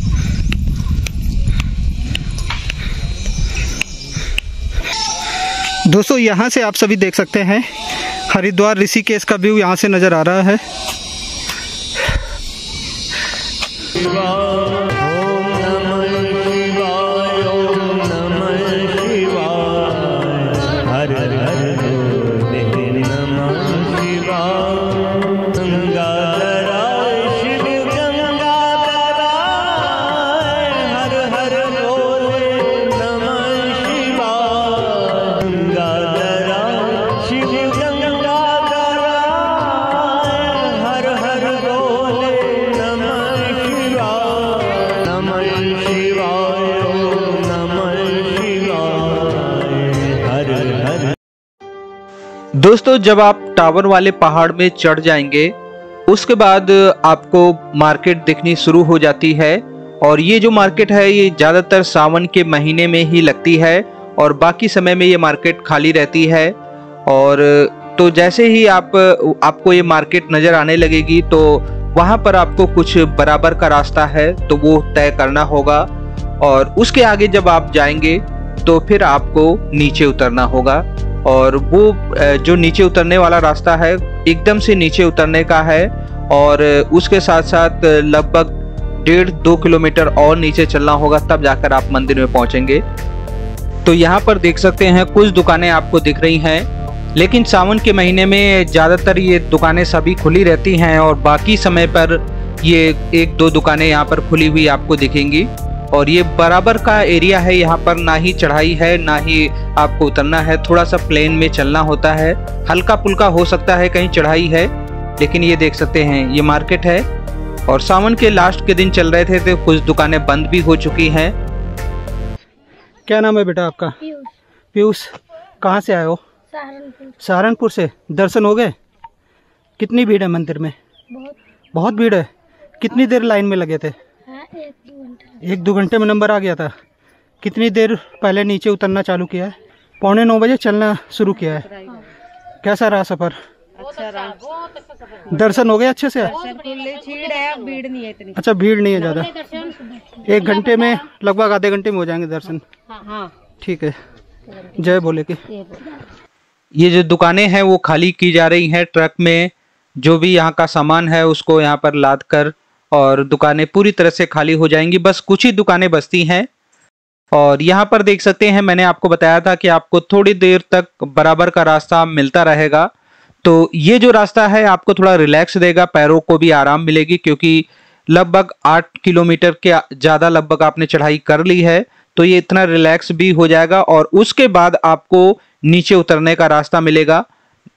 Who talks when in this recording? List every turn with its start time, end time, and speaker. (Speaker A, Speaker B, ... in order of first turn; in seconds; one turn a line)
Speaker A: 5.8-10.6
Speaker B: 52.6-55.5
Speaker B: 56.1-66.5
Speaker B: 67.1-75.9
Speaker B: 76.4-92.8
Speaker B: 93.8-117.0
Speaker B: 117.7-121.3
Speaker A: 123.1-124.0
Speaker C: 124.0-124.3
Speaker A: 124.7-126.2
Speaker C: 126.5-127.1
Speaker A: 127.2-128.7
Speaker A: 129.8-130.7
Speaker C: 131.1-131.4
Speaker A: 131.7-132.3
Speaker A: 132.8-133.9
Speaker C: 134.3-135.4
Speaker A: 135.4-136.7
Speaker A: 137.4-141.7
Speaker C: 141.7-142.0
Speaker A: 142.6-143.4
Speaker C: 143.8-144.6
Speaker A: 145.3-146.3
Speaker C: 146.2-148.4
Speaker A: 148.3-149.3
Speaker C: 149.1-150.6
Speaker A: 150.2-152.6
Speaker C: 152.9-153.3
Speaker A: 153.6-153.9
Speaker C: 154.6-154.9
Speaker A: 154.8-155.4
Speaker C: 155.5-155.9
Speaker B: 156.8-166.5
Speaker B: 167.3-172.9
Speaker B: 173.4-187.2